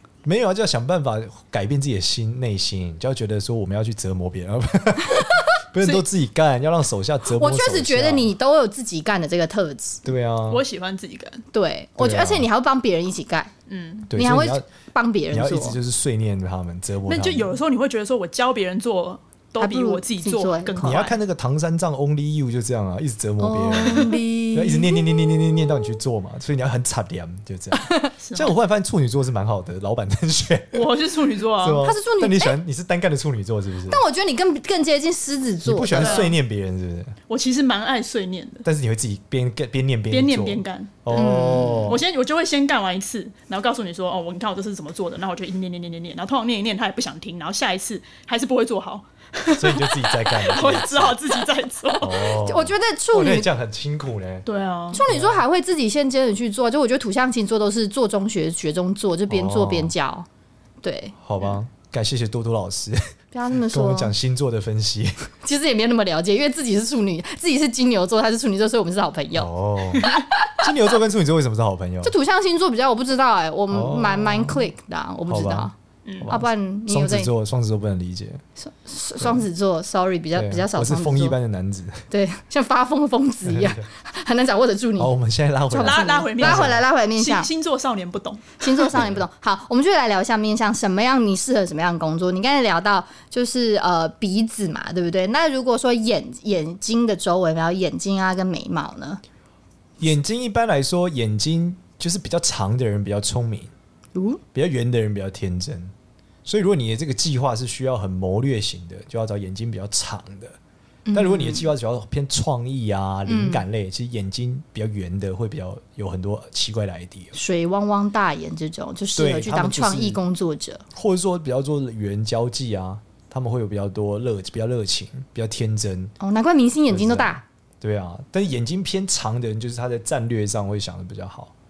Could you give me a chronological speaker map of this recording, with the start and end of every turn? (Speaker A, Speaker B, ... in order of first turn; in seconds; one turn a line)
Speaker A: 0.2-8.3
Speaker B: 7.3-10.1
Speaker A: 10.1-10.7
Speaker C: 10.5-11.4
Speaker B: 11.5-13.5
Speaker A: 12.0-12.5
Speaker C: 13.7-14.1
Speaker A: 14.1-14.7
Speaker B: 14.1-15.8
Speaker A: 15.3-17.6
Speaker C: 17.1-21.2
Speaker B: 19.6-21.1
Speaker A: 20.8-30.9
Speaker B: 23.4-25.7
Speaker B: 27.7-28.1
Speaker C: 28.2-28.6
Speaker C: 30.7-31.9
Speaker A: 31.6-34.0
Speaker B: 31.8-32.6
Speaker B: 33.9-36.3
Speaker A: 35.6-37.2
Speaker C: 35.9-36.4
Speaker C: 37.3-38.6
Speaker A: 38.6-42.0
Speaker C: 40.1-41.1
Speaker B: 41.1-42.0
Speaker C: 41.9-52.3
Speaker A: 49.5-51.2
Speaker A: 52.0-54.5
Speaker B: 52.3-53.5
Speaker C: 54.5-55.0
Speaker B: 54.9-60.3
Speaker A: 55.0-55.5
Speaker A: 59.3-59.9
Speaker B: 60.8-61.2
Speaker A: 61.2-65.3
Speaker B: 63.3-64.1
Speaker B: 65.4-69.5
Speaker A: 69.3-72.2
Speaker B: 70.0-70.6
Speaker B: 72.0-75.7
Speaker A: 73.7-74.7
Speaker A: 75.3-78.4
Speaker C: 76.1-76.3
Speaker B: 76.3-77.3
Speaker B: 78.6-81.4
Speaker A: 80.3-82.1
Speaker B: 82.1-85.1
Speaker A: 83.4-83.9
Speaker A: 85.0-86.8
Speaker B: 85.7-87.5
Speaker C: 85.8-89.0
Speaker B: 88.6-99.2
Speaker A: 88.9-89.2
Speaker A: 100.0-103.7
Speaker B: 104.2-104.4
Speaker A: 104.5-105.9
Speaker A: 106.5-110.6
Speaker B: 111.1-111.7
Speaker A: 111.1-117.4
Speaker B: 113.3-113.6
Speaker B: 117.3-120.8
Speaker A: 119.2-120.2
Speaker A: 120.9-126.1
Speaker B: 126.2-127.4
Speaker A: 126.9-131.5